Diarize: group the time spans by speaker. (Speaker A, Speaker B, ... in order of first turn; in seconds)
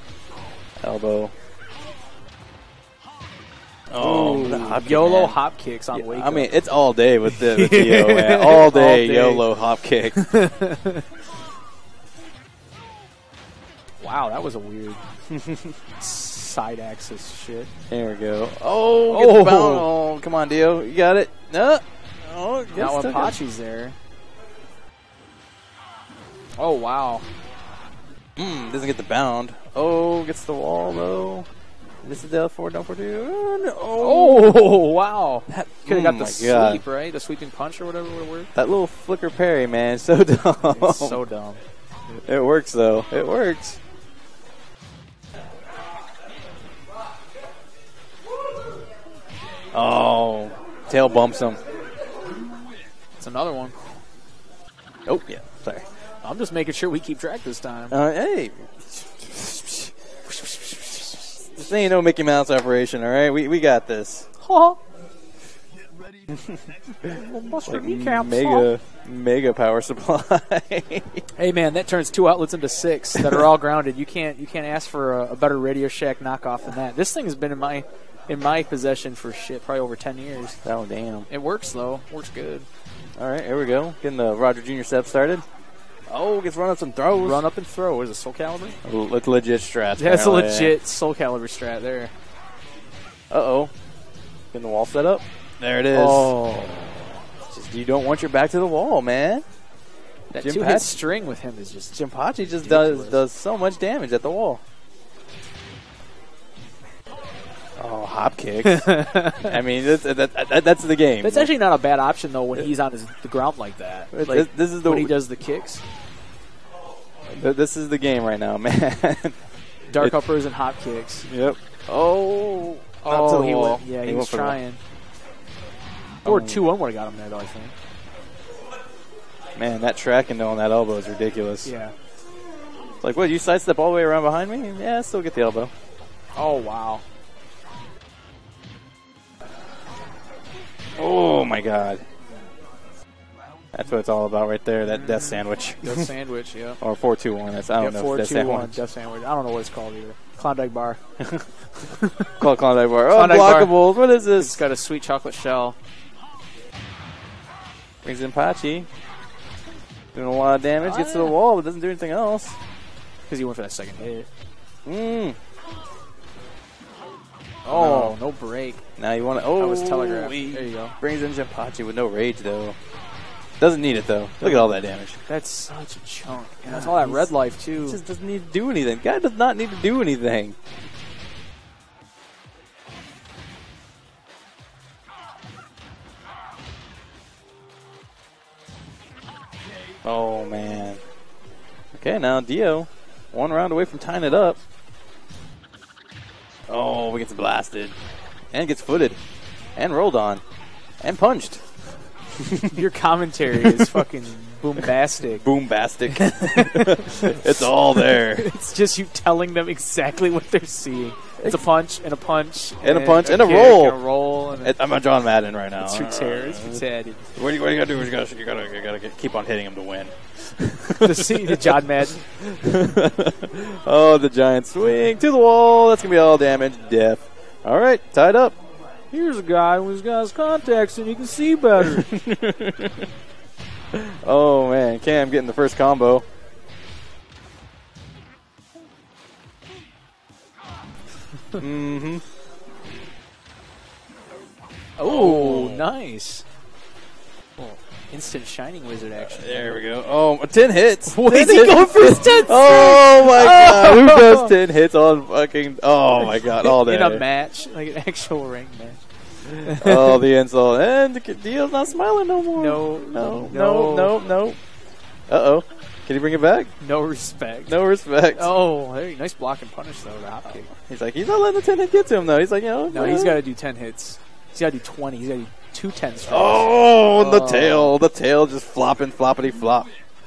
Speaker A: 0.8-1.3, 3.9-5.4, 5.9-10.2, 15.3-15.8, 17.9-23.4, 28.4-31.5, 32.0-34.7, 35.5-36.8, 38.5-41.2, 42.1-43.8, 49.7-51.6, 55.1-55.9, 57.9-60.4, 61.1-64.3, 66.3-66.6, 67.6-71.2, 73.2-73.4, 80.6-81.3, 83.2-85.4, 86.1-87.4, 88.8-90.8, 93.3-93.7, 94.5-96.4, 97.5-99.4, 100.4-101.0, 101.9-104.6, 107.8-111.5, 114.1-115.1, 117.3-119.4, 121.3-124.6, 126.2-126.6, 129.6-131.7, 133.0-135.7, 141.0-142.0, 143.7-146.1, 146.8-148.8, 151.2-151.5, 152.4-154.6, 158.0-158.9, 160.1-162.6, 164.8-165.4, 167.7-168.2, 169.0-172.8, 173.6-175.2, 176.7-180.6, 190.0-191.0, 191.9-194.6, 196.7-198.0, 198.5-199.2, 199.8-200.4, 201.0-201.6, 202.3-202.8, 203.5-204.1, 204.8-208.4, 211.4-211.7, 212.8-214.0, 214.5-216.8, 217.3-228.6, 231.8-233.1, 233.9-236.2, 241.6-242.2, 245.0-245.9, 249.2-257.2, 259.6-264.6, 265.3-266.7, 267.7-268.5, 270.4-273.4, 276.2-279.9
Speaker B: 4.0-6.6, 7.2-9.5, 10.1-11.1, 14.0-15.0, 16.0-17.7, 19.1-19.9, 22.7-24.0, 26.6-27.2, 34.0-38.5, 40.7-41.6, 53.1-53.7, 56.2-58.0, 60.3-61.3, 64.4-64.8, 67.0-68.7, 71.3-80.6, 81.3-82.7, 87.1-88.8, 90.0-92.1, 95.9-97.0, 100.3-103.2, 108.6-109.6, 111.2-115.8, 119.9-121.3, 123.0-124.8, 126.2-127.7, 131.6-131.9, 136.3-137.0, 144.9-146.8, 147.8-151.0, 151.8-152.3, 153.1-153.7, 154.4-155.8, 160.8-161.3, 163.3-164.3, 167.7-168.8, 169.6-171.0, 174.4-174.7, 175.2-178.0, 202.7-205.4, 206.4-214.8, 215.8-217.3, 220.9-222.2, 229.1-232.1, 245.0-246.4, 247.6-249.8, 251.1-254.5, 256.1-260.2, 262.5-264.1, 266.8-267.7, 268.4-270.7, 272.9-277.9